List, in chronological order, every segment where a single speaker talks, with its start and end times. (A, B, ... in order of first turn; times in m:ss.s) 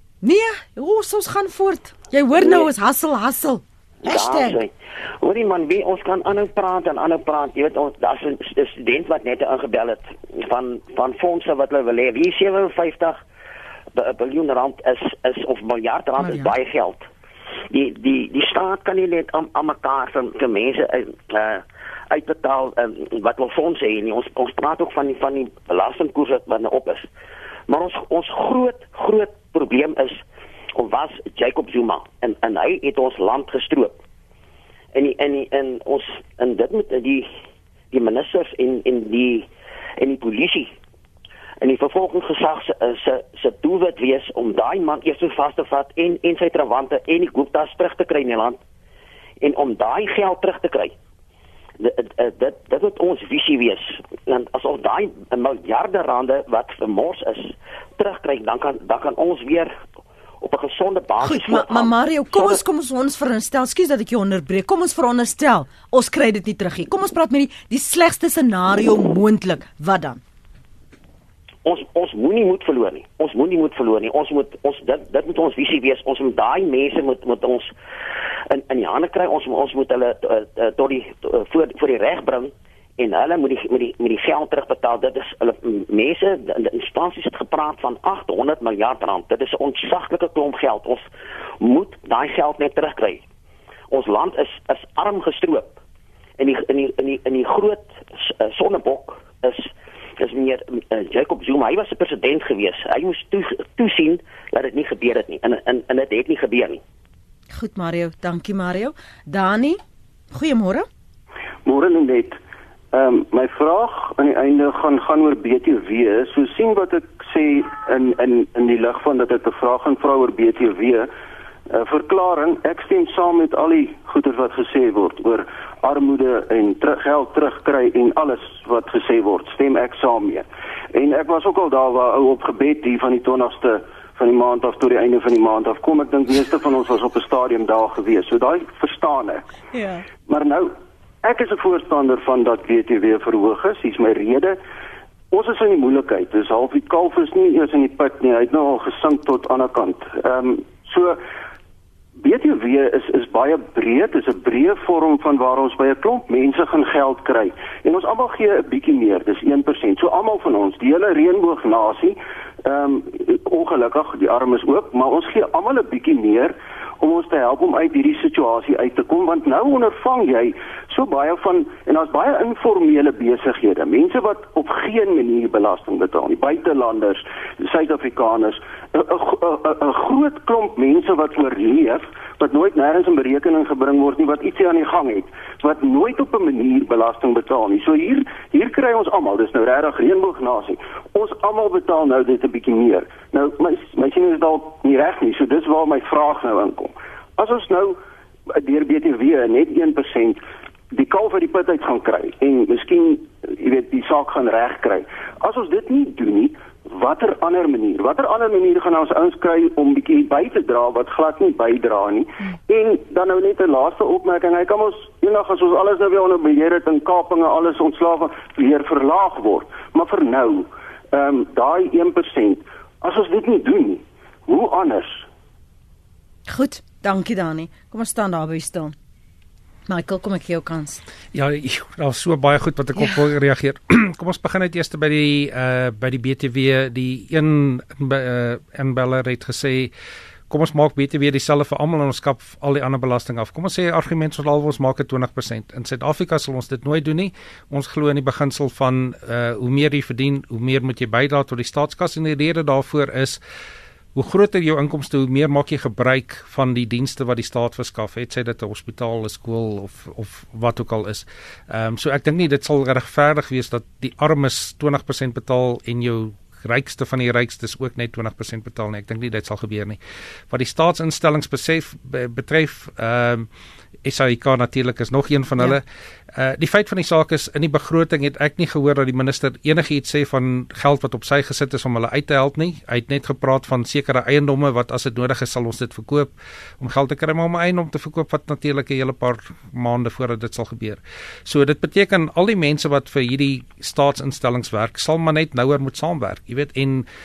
0:00.2-0:04.6 A
0:02.3-0:02.7 B
0:04.0-0:13.2 B
0:13.9-0:17.1 B
0:16.2-0:16.5 A
0:17.7-0:27.1 B
0:27.7-0:30.2 B
0:30.7-0:34.0 B
0:34.9-0:37.3 B
0:37.9-0:40.7 B
0:41.6-0:48.6 B
0:49.4-0:50.9 B
0:51.8-0:59.8 B
1:00.4-1:02.6 B
1:01.2-1:10.2 A
1:11.6-1:17.7 B
1:18.5-1:31.0 B
1:31.6-1:33.2 B
1:33.9-1:35.8 B
1:36.4-1:46.8 B
1:47.5-1:49.8 A
1:50.3-1:50.9 A
1:51.6-1:52.4 C
1:52.9-2:01.1 C
2:01.7-2:19.4 C
2:19.7-2:20.0 A
2:20.2-2:24.6 C
2:25.3-2:31.2 C
2:32.2-3:18.0 C
3:18.6-3:45.3 C
3:46.5-3:48.9 A
3:49.9-3:51.0 A
3:51.3-3:59.9 D
4:00.5-4:13.4 D
4:14.1-4:30.0 D
4:30.5-4:33.5 D
4:34.0-4:57.0 D